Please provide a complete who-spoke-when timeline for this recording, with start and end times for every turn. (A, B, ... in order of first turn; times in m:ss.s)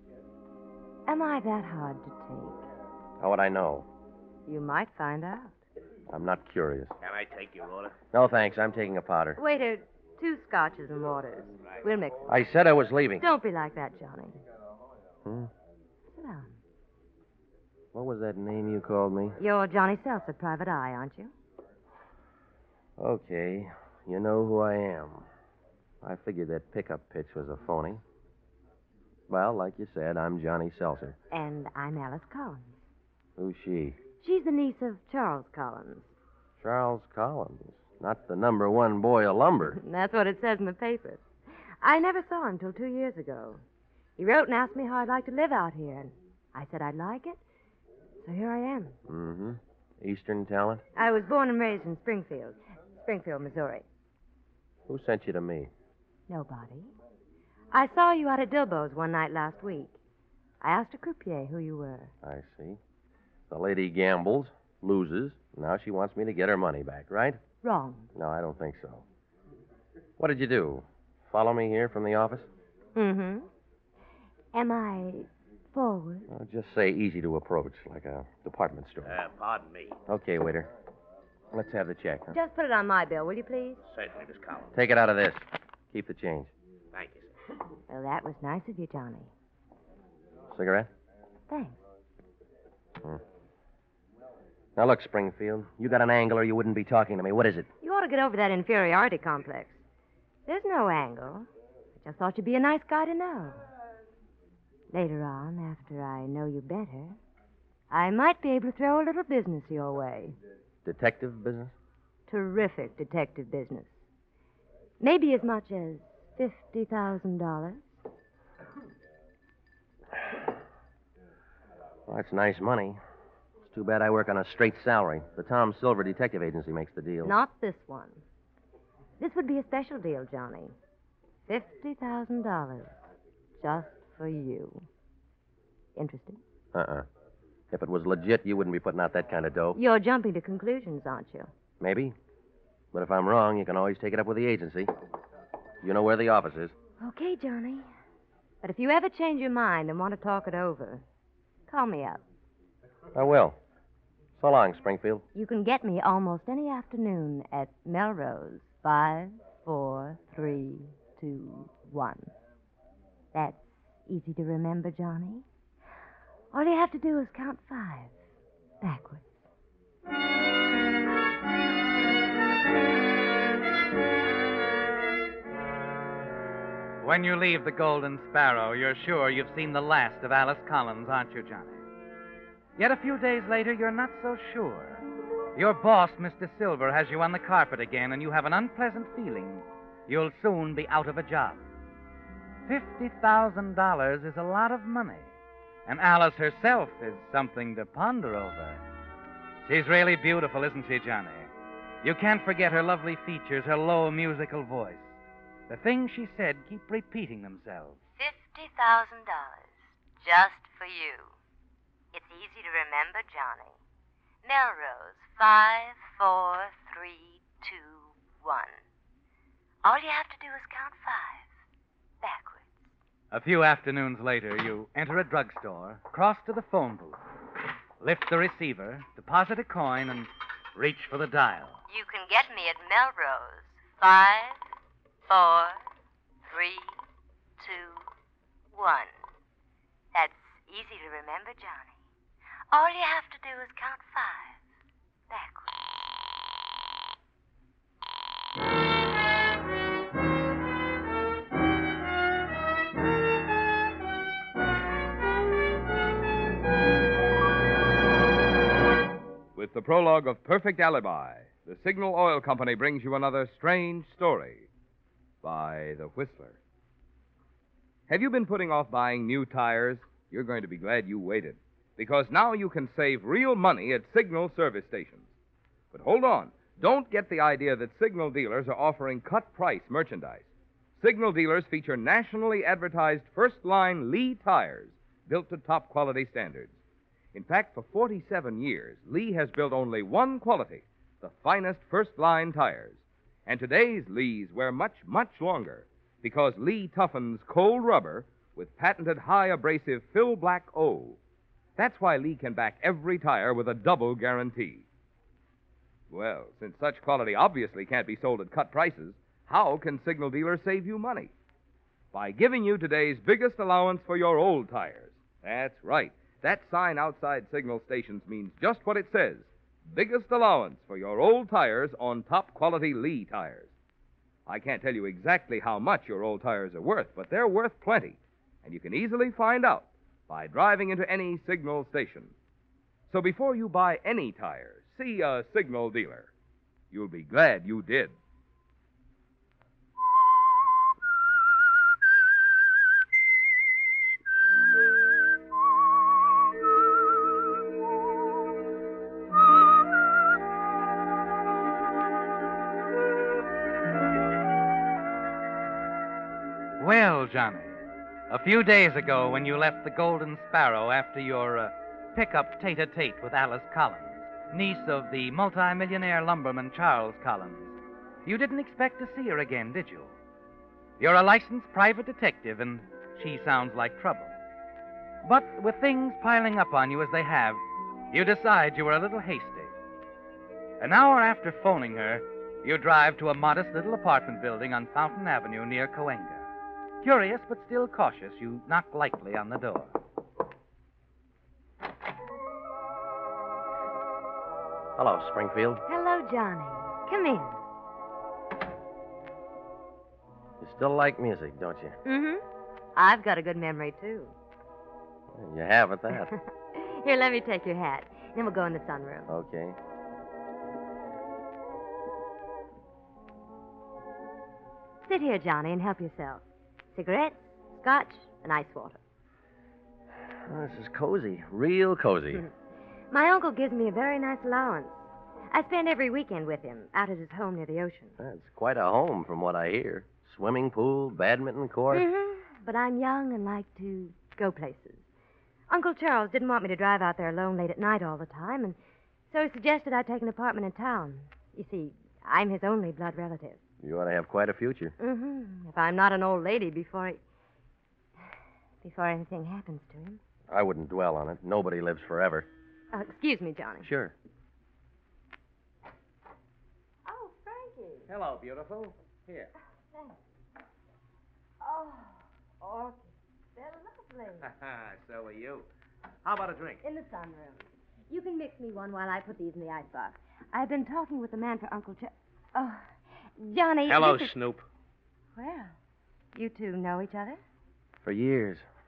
0:01.1-0:02.7 A
0:03.2-0:03.9 B
0:04.5-0:05.6 A
0:06.1-0:06.9 B
0:07.0-0:08.0 C
0:08.1-0:09.4 B
0:09.4-0:12.3 A
0:12.3-0:13.3 B
0:13.2-0:14.4 A
0:15.2-0:15.5 B
0:16.1-0:16.6 A
0:17.9-0:19.4 B
0:19.4-0:21.3 A
0:23.0-0:25.3 B
0:26.0-0:28.0 B
0:29.3-0:31.2 B
0:31.3-0:32.8 A
0:33.4-0:34.0 B
0:34.2-0:36.1 A
0:36.6-0:39.8 B
0:39.7-0:41.2 A
0:41.8-0:43.6 A
0:44.2-0:47.4 A
0:48.2-0:49.0 A
0:49.1-0:50.8 B
0:51.0-0:53.8 A
0:54.9-0:55.7 B
0:56.3-0:56.9 A
0:57.7-1:00.0 A
1:00.6-1:02.1 A
1:02.2-1:02.8 B
1:03.5-1:07.4 B
1:07.6-1:08.1 A
1:08.1-1:09.0 B
1:10.2-1:12.5 B
1:13.0-1:13.5 A
1:14.5-1:16.3 A
1:16.3-1:19.2 B
1:19.0-1:20.0 C
1:20.1-1:20.7 B
1:21.5-1:22.4 B
1:22.3-1:23.8 A
1:23.9-1:24.7 C
1:24.7-1:26.5 B
1:26.9-1:27.3 C
1:27.9-1:29.3 A
1:30.5-1:30.9 B
1:31.5-1:31.8 A
1:34.8-1:37.7 B
1:37.8-1:39.8 A
1:40.5-1:41.5 A
1:42.0-1:43.6 A
1:44.9-1:47.2 A
1:47.9-1:50.4 A
1:50.8-1:51.7 B
1:52.3-1:54.0 A
1:55.0-1:57.9 A
2:02.1-2:03.0 B
2:03.7-2:07.4 B
2:07.2-2:08.2 A
2:09.2-2:10.8 A
2:11.5-2:13.0 A
2:13.6-2:14.9 A
2:16.0-2:16.4 A
2:16.7-2:17.1 B
2:17.7-2:19.8 B
2:19.7-2:21.5 A
2:21.8-2:22.2 B
2:22.9-2:24.9 B
2:25.8-2:26.7 B
2:27.0-2:27.9 A
2:28.6-2:31.0 A
2:31.7-2:32.2 A
2:33.1-2:33.6 B
2:34.4-2:35.2 B
2:35.4-2:42.3 A
2:43.3-2:45.4 A
2:46.5-2:48.1 A
2:48.8-2:49.3 A
2:57.0-3:01.8 D
3:02.8-3:05.0 D
3:05.6-3:11.6 D
3:12.7-3:15.3 D
3:15.9-3:18.8 D
3:19.6-3:21.5 D
3:22.0-3:25.2 D
3:25.7-3:28.0 D
3:28.2-3:31.4 A
3:32.1-3:33.8 A
3:34.4-3:38.8 A
3:39.8-3:41.5 A
3:42.2-3:42.9 A
3:43.3-3:47.2 D
3:48.0-3:51.8 D
3:51.9-3:54.6 A
3:55.3-3:55.8 A
3:56.5-3:57.0 A
3:57.6-3:58.1 A
3:58.7-3:59.1 A
4:00.1-4:01.9 A
4:02.7-4:04.6 A
4:05.3-4:06.1 A
4:19.6-4:24.7 E
4:25.4-4:26.6 E
4:28.1-4:35.3 E
4:35.9-4:46.7 E
4:47.3-5:01.2 E
5:01.8-5:04.8 E
5:06.1-5:11.3 E
5:12.1-5:23.7 E
5:24.5-5:32.3 E
5:33.1-5:36.3 E
5:36.9-5:38.2 E
5:56.8-6:10.2 D
6:11.0-6:14.4 D
6:15.2-6:19.7 D
6:20.8-6:26.5 D
6:27.0-6:29.9 D
6:35.0-6:35.8 B
6:35.9-6:37.6 A
6:40.6-6:42.0 B
6:42.0-6:42.4 A
6:43.0-6:44.3 A
6:45.3-6:46.3 B
6:46.1-6:49.3 A
6:49.3-6:49.8 B
6:55.0-6:59.0 A
7:00.3-7:02.4 B
7:03.1-7:08.2 A
7:08.2-7:12.1 B
7:11.9-7:15.0 A
7:15.7-7:18.8 A
7:19.3-7:23.6 A
7:23.8-7:25.0 B
7:25.0-7:27.2 A
7:28.8-7:30.2 A
7:30.5-7:32.5 B
7:32.9-7:33.9 A
7:33.8-7:34.1 B
7:37.0-7:38.1 A
7:38.1-7:39.5 C
7:41.6-7:44.5 A
7:44.4-7:45.7 C
7:46.2-7:46.8 C
7:46.8-7:52.8 A
7:53.4-7:54.4 A
7:53.9-7:54.7 C
7:55.4-7:55.7 A
7:56.4-7:57.4 A
7:58.0-7:58.6 B